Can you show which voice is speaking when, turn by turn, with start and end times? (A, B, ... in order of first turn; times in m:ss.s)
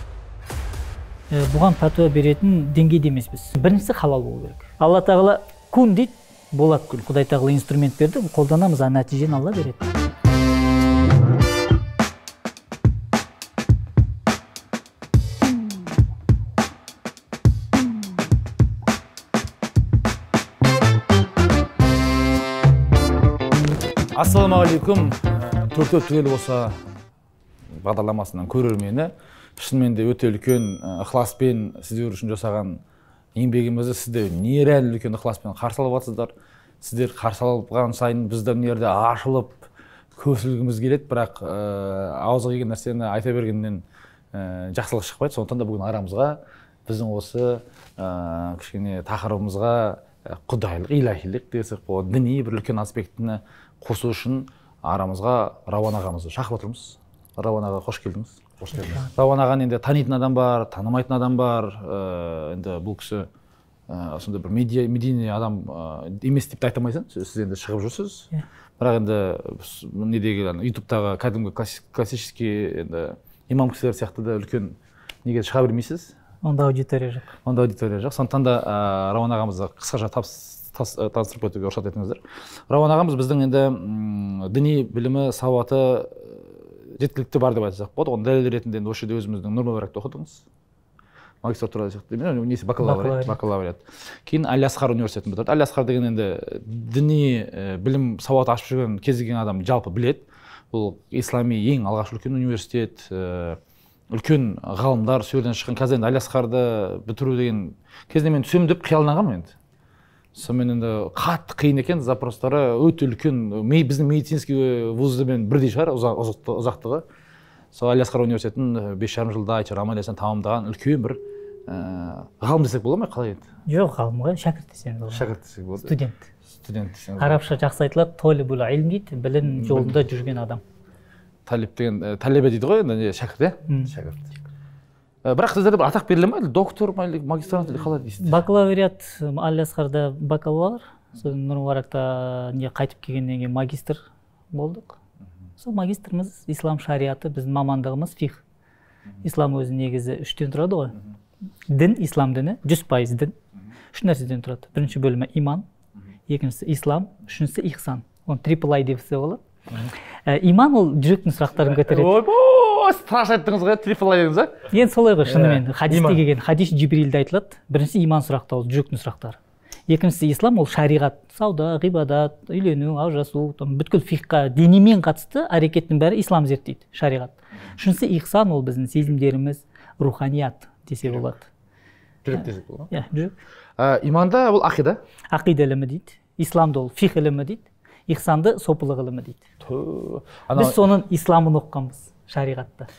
0:01.3-0:09.9 A
0:24.1-0:26.8 B
0:27.8-0:32.8 B
0:33.4-1:03.3 B
1:03.9-1:16.1 B
1:16.4-1:17.3 A
1:17.4-1:30.4 B
1:31.4-1:43.6 B
1:32.8-1:33.4 A
1:44.1-1:49.5 B
1:50.4-1:57.0 B
1:57.7-2:03.4 B
2:03.7-2:05.2 A
2:05.1-2:06.0 B
2:05.9-2:06.3 A
2:06.6-2:07.4 B
2:07.2-2:10.6 A
2:09.5-2:10.0 B
2:11.5-2:14.3 B
2:15.2-2:18.4 B
2:18.2-2:25.0 A
2:25.6-2:28.4 A
2:29.2-2:31.0 A
2:31.7-2:33.3 A
2:33.9-2:35.6 A
2:36.3-2:39.4 A
2:40.3-2:42.2 A
2:41.8-2:44.7 B
2:44.7-3:01.5 A
2:45.3-2:46.2 B
3:02.2-3:02.9 B
3:02.9-3:03.4 A
3:03.8-3:05.0 B
3:05.3-3:09.4 A
3:09.6-3:10.8 B
3:10.6-3:12.9 A